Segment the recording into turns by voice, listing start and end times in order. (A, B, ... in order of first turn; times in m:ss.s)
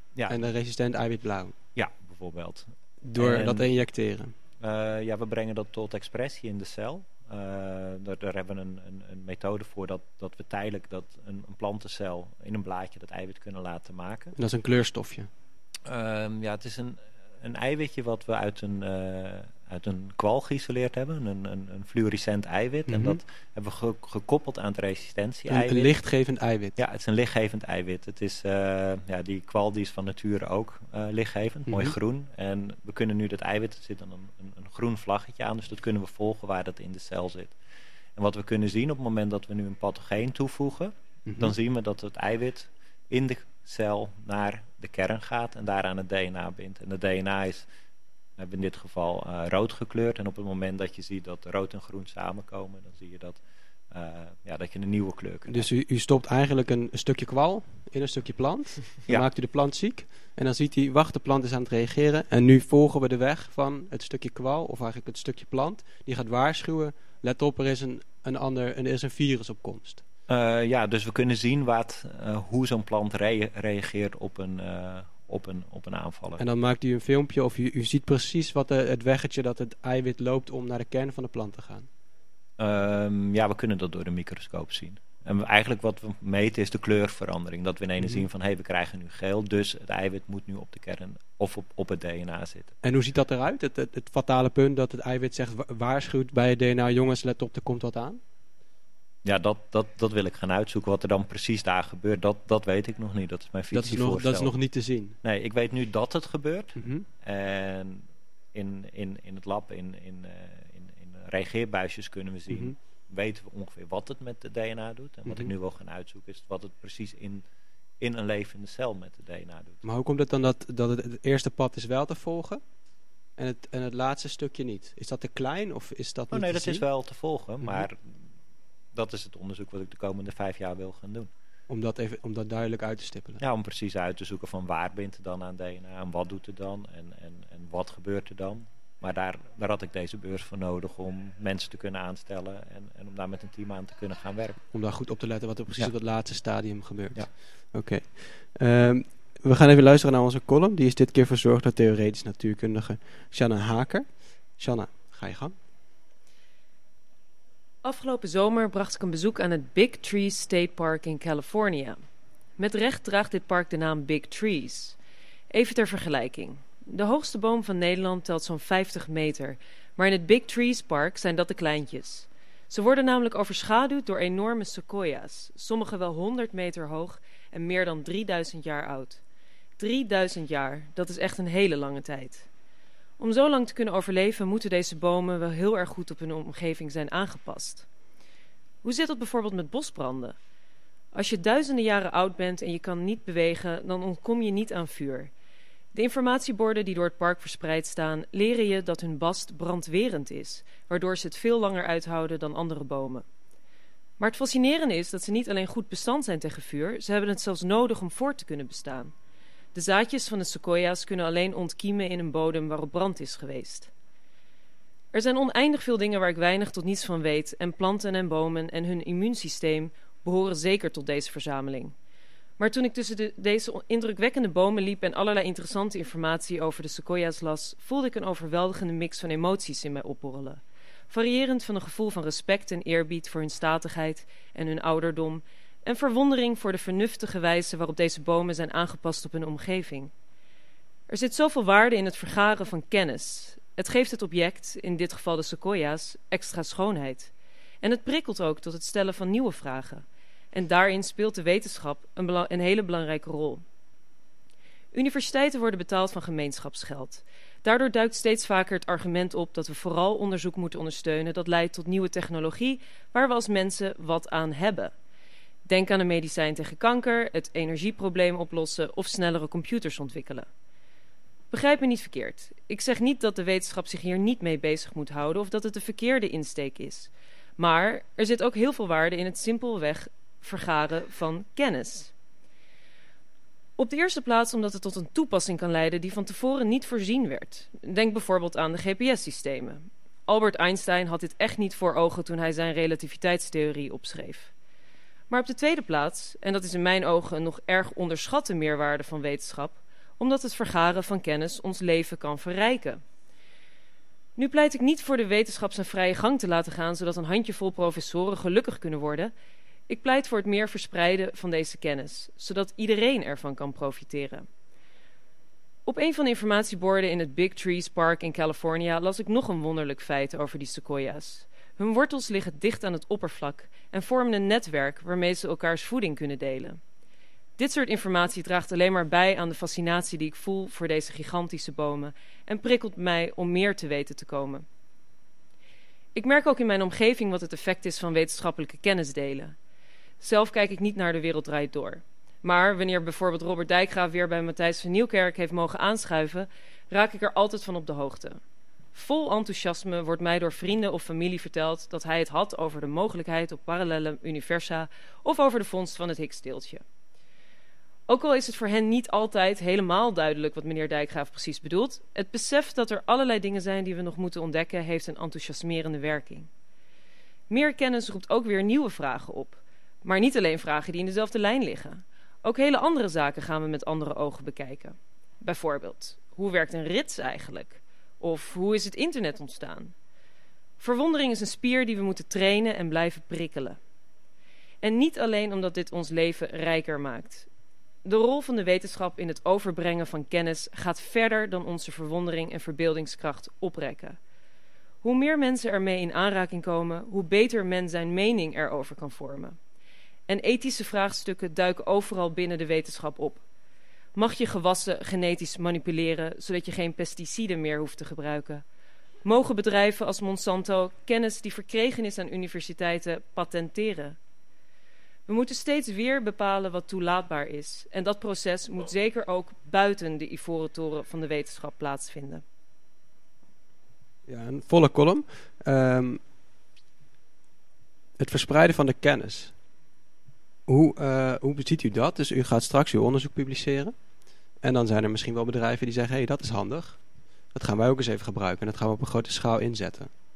0:00.3-0:01.5 A
0:01.8-0:03.7 B
0:03.0-0:04.3 A
0:04.6-0:14.3 B
0:14.3-0:15.3 A
0:15.8-0:25.9 B
0:22.9-0:23.2 A
0:25.5-0:26.7 A
0:26.8-0:37.6 B
0:31.7-0:31.9 A
0:38.2-0:47.7 B
0:41.2-0:41.5 A
0:48.4-0:55.7 B
0:55.5-1:10.0 A
1:10.3-1:16.4 B
1:16.4-1:21.9 A
1:22.6-1:32.8 B
1:28.0-1:28.2 A
1:32.8-1:38.2 A
1:39.2-1:44.6 B
1:43.7-1:45.2 A
1:45.2-1:57.4 B
1:46.8-1:47.1 A
1:52.5-1:52.7 A
1:58.0-1:59.8 B
1:59.8-2:02.6 A
2:03.4-2:06.9 A
2:06.3-2:08.3 B
2:07.6-2:07.9 A
2:08.9-2:11.3 B
2:11.7-2:13.4 A
2:13.4-2:24.6 B
2:24.7-2:35.5 A
2:37.8-2:42.0 C
2:42.6-2:45.0 C
2:45.5-2:59.2 C
2:59.8-3:02.5 C
3:03.2-3:07.8 C
3:08.8-3:10.4 C
3:11.1-3:15.3 C
3:15.9-3:23.2 C
3:24.2-3:29.1 C
3:29.7-3:33.9 C
3:35.1-3:41.9 C
3:42.6-4:00.1 C
4:01.1-4:13.6 C
4:14.9-4:24.9 C
4:25.6-4:30.5 C
4:31.5-4:42.1 C
4:43.8-4:54.5 C
4:55.3-5:03.0 C
5:04.4-5:09.3 C
5:09.9-5:14.5 C
5:15.8-5:26.8 C
5:27.6-5:34.6 C
5:36.1-5:39.6 C
5:40.2-5:48.4 C
5:48.9-5:56.8 C
5:58.1-6:06.5 C
6:07.5-6:19.9 C
6:20.8-6:23.8 C
6:24.8-6:27.5 C
6:28.0-6:34.2 C
6:35.0-6:39.6 C
6:40.3-6:43.4 C
6:44.1-6:48.6 C
6:49.2-6:54.2 C
6:55.2-7:02.4 C
7:04.3-7:06.2 A
7:08.2-7:09.5 A
7:10.7-7:13.9 A
7:14.6-7:17.0 A
7:17.5-7:20.1 A